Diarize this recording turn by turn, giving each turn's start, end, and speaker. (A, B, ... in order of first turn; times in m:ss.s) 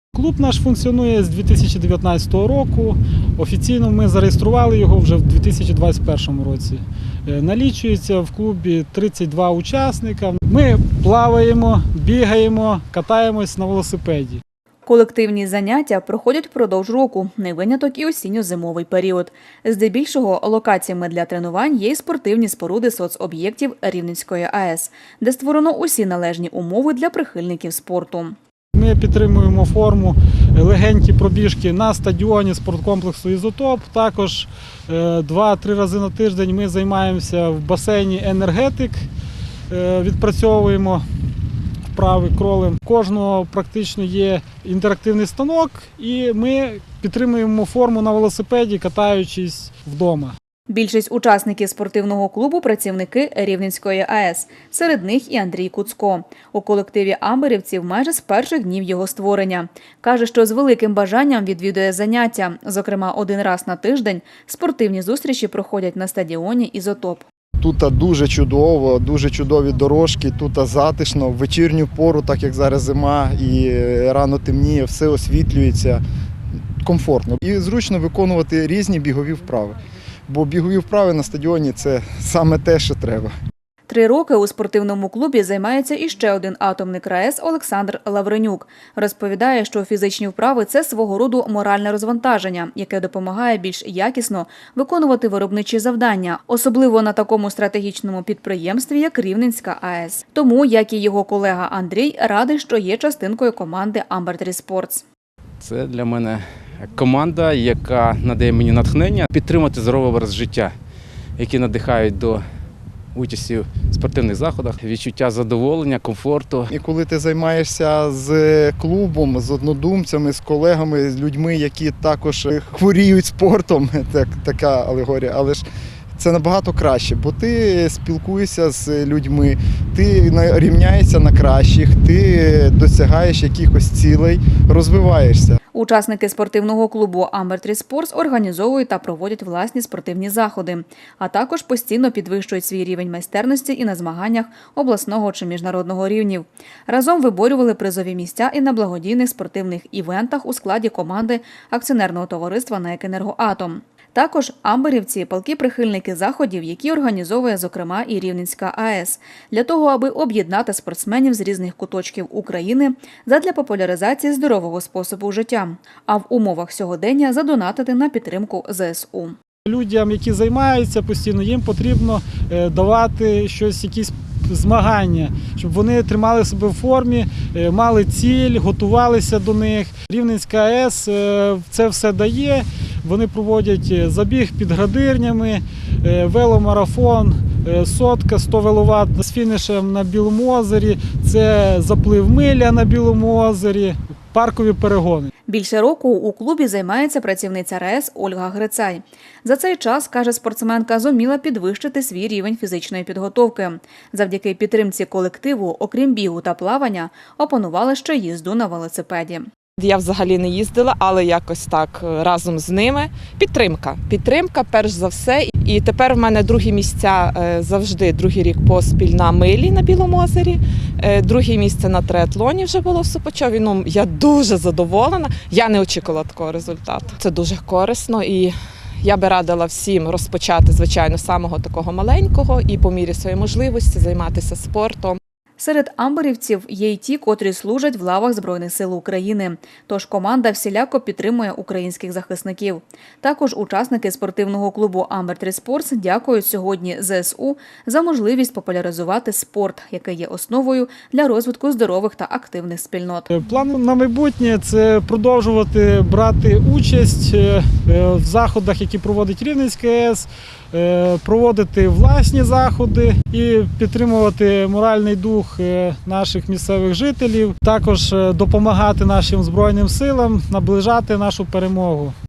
0:00.2-0:06.8 A
0:07.5-0:14.4 A
0:14.8-0:28.4 B
0:28.8-0:39.1 A
0:39.7-0:41.0 A
0:42.0-0:50.3 A
0:50.7-1:07.2 B
1:07.6-1:16.0 C
1:16.8-1:23.3 C
1:23.9-1:45.1 B
1:45.6-1:50.7 D
1:51.4-1:52.4 D
1:53.2-1:56.7 D
1:56.7-2:05.7 C
2:06.2-2:15.6 C
2:15.7-2:49.4 B
2:49.8-3:15.2 A
3:15.5-3:29.5 B
3:29.8-3:55.2 E
3:55.6-4:13.3 B
4:13.5-4:20.3 A
4:20.8-4:32.1 A